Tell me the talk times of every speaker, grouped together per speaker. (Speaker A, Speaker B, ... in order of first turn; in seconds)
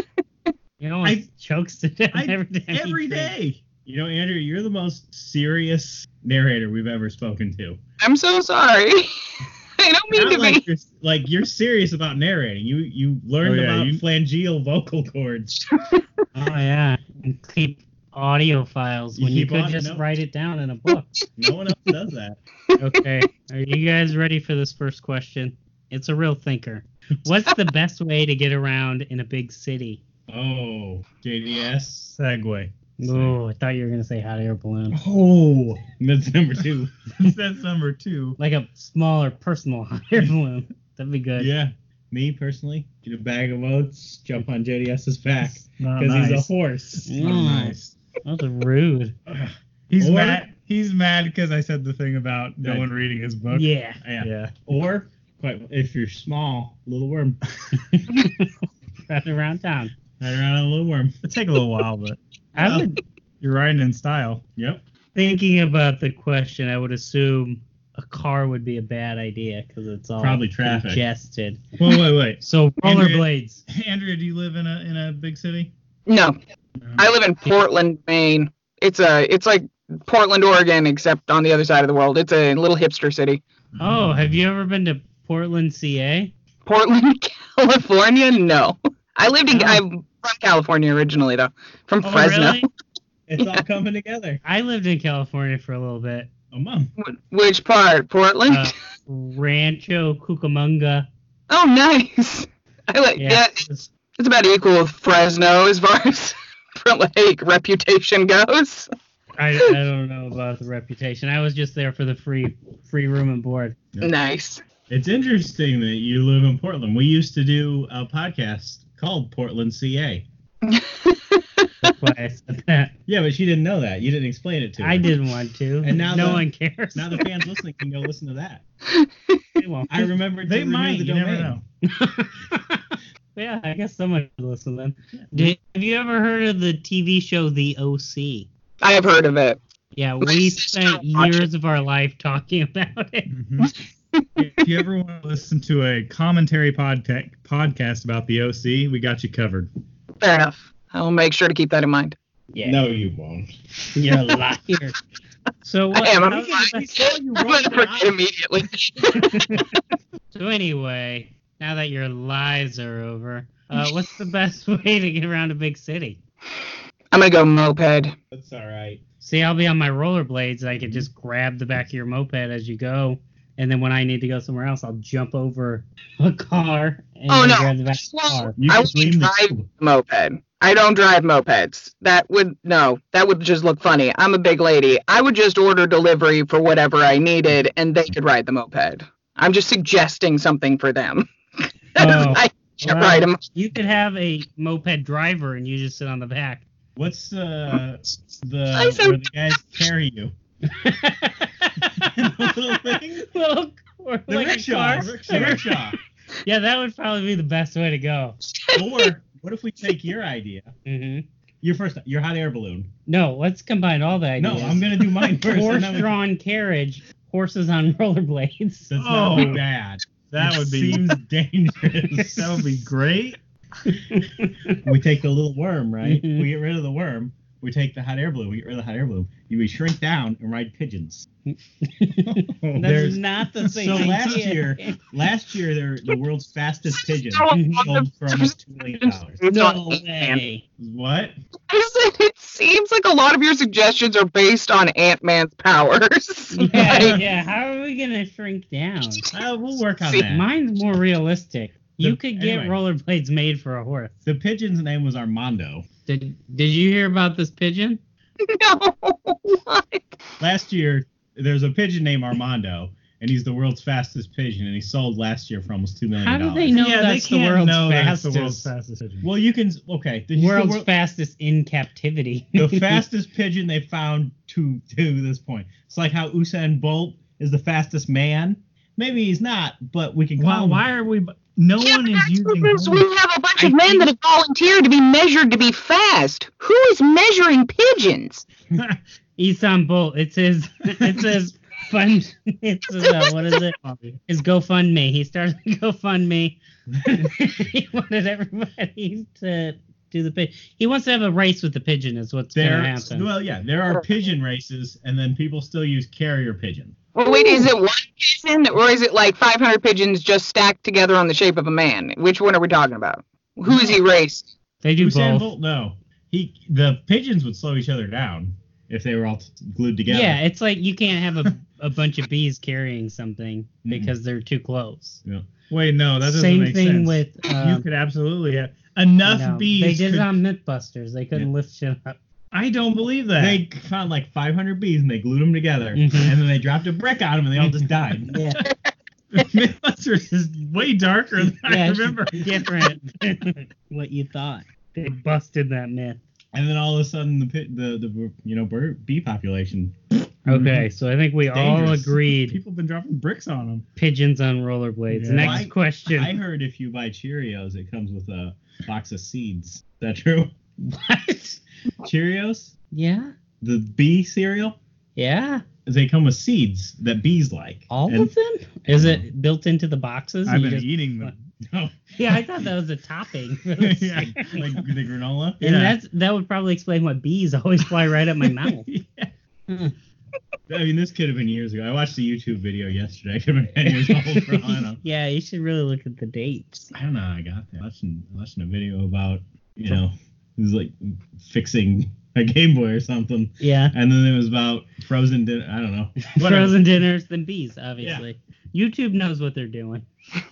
Speaker A: 0.8-3.3, 16.4-21.1, 22.8-30.0, 33.0-35.0, 38.4-41.5, 47.1-49.1, 53.5-54.0, 57.9-58.5, 59.1-59.9, 62.6-63.0, 65.2-71.6, 72.4-73.6, 83.8-86.3, 89.5-89.8, 92.0-92.7, 94.5-96.3, 98.5-101.1, 103.2-103.9, 109.4-113.8, 121.8-122.9, 124.8-127.3, 129.6-130.1, 131.8-138.5, 139.9-143.3, 153.9-155.0, 155.6-156.9, 159.2-159.6, 160.3-166.2, 169.2-178.6, 192.0-196.7, 200.7-208.4, 210.9-211.3, 213.1-219.5, 223.9-224.8, 226.0-226.5, 231.5-235.0, 237.5-237.9, 239.5-240.6, 246.5-249.2, 250.3-254.1, 256.1-258.0, 266.2-268.7, 270.4-273.0, 283.6-284.0, 289.4-303.3, 314.8-315.5, 320.1-325.2, 326.2-327.9, 329.2-332.2, 335.9-336.4, 338.3-338.6, 341.6-346.2, 350.5-352.6, 354.0-356.4, 360.8-361.6, 362.9-363.3, 365.2-365.6, 367.9-371.3, 372.2-374.9, 375.6-378.9, 379.7-379.9, 383.8-386.9, 393.6-393.9, 396.3-400.1
Speaker B: 2.1-3.6, 13.4-14.0, 32.1-33.3, 34.9-35.9, 37.2-38.4, 45.8-48.0, 49.9-54.6, 61.2-62.2, 63.4-64.4, 71.8-75.7, 76.8-77.1, 130.5-131.6, 143.3-143.7, 144.5-149.7, 205.3-205.6, 219.0-219.6, 220.3-221.2, 222.3-223.4, 266.7-269.3, 280.4-283.1, 291.0-291.3, 293.8-294.2, 325.7-330.3, 332.5-333.6, 339.3-342.9, 350.5-350.9, 351.5-353.9, 355.1-355.7, 370.4-371.4, 373.9-374.4, 375.6-376.0, 378.9-379.3
Speaker C: 3.8-7.8, 10.1-15.6, 19.2-20.1, 21.4-22.4, 30.3-32.1, 36.0-36.9, 41.4-47.0, 49.3-50.5, 52.6-52.9, 54.0-57.4, 60.2-61.1, 62.6-62.9, 64.6-64.8, 70.2-71.0, 93.3-94.4, 96.5-96.9, 114.9-120.2, 123.1-125.1, 125.8-128.6, 129.9-131.6, 152.6-153.5, 156.6-158.2, 168.3-169.0, 178.6-179.7, 197.0-200.3, 202.0-203.3, 204.3-206.0, 208.7-210.7, 211.6-212.9, 214.4-216.1, 218.9-222.5, 224.8-231.3, 232.3-239.4, 240.8-241.3, 246.7-247.2, 249.3-250.4, 252.0-252.8, 254.2-255.8, 260.4-266.8, 269.2-270.9, 272.6-280.8, 302.5-307.0, 313.7-313.9, 315.0-320.4, 323.8-324.1, 333.4-338.4, 346.5-350.0, 355.4-360.6, 362.0-362.7, 363.6-364.8, 365.9-368.3, 369.0-369.2, 371.6-372.4, 373.8-375.7, 380.7-385.0, 386.9-396.8, 398.0-398.2
Speaker D: 8.0-9.1, 9.8-10.7, 15.7-16.0, 76.1-76.4, 77.0-83.4, 86.7-92.7, 97.0-98.7, 101.5-103.7, 104.2-108.9, 114.0-114.6, 120.6-121.5, 128.9-129.4, 138.8-139.6, 140.2-141.5, 143.6-144.2, 150.2-152.2, 155.9-159.6, 167.1-168.2, 177.3-191.3, 191.9-193.4, 198.7-199.2, 208.5-209.1, 237.0-240.4, 241.7-247.2, 250.0-250.3, 258.4-260.2, 281.8-288.5, 307.1-314.5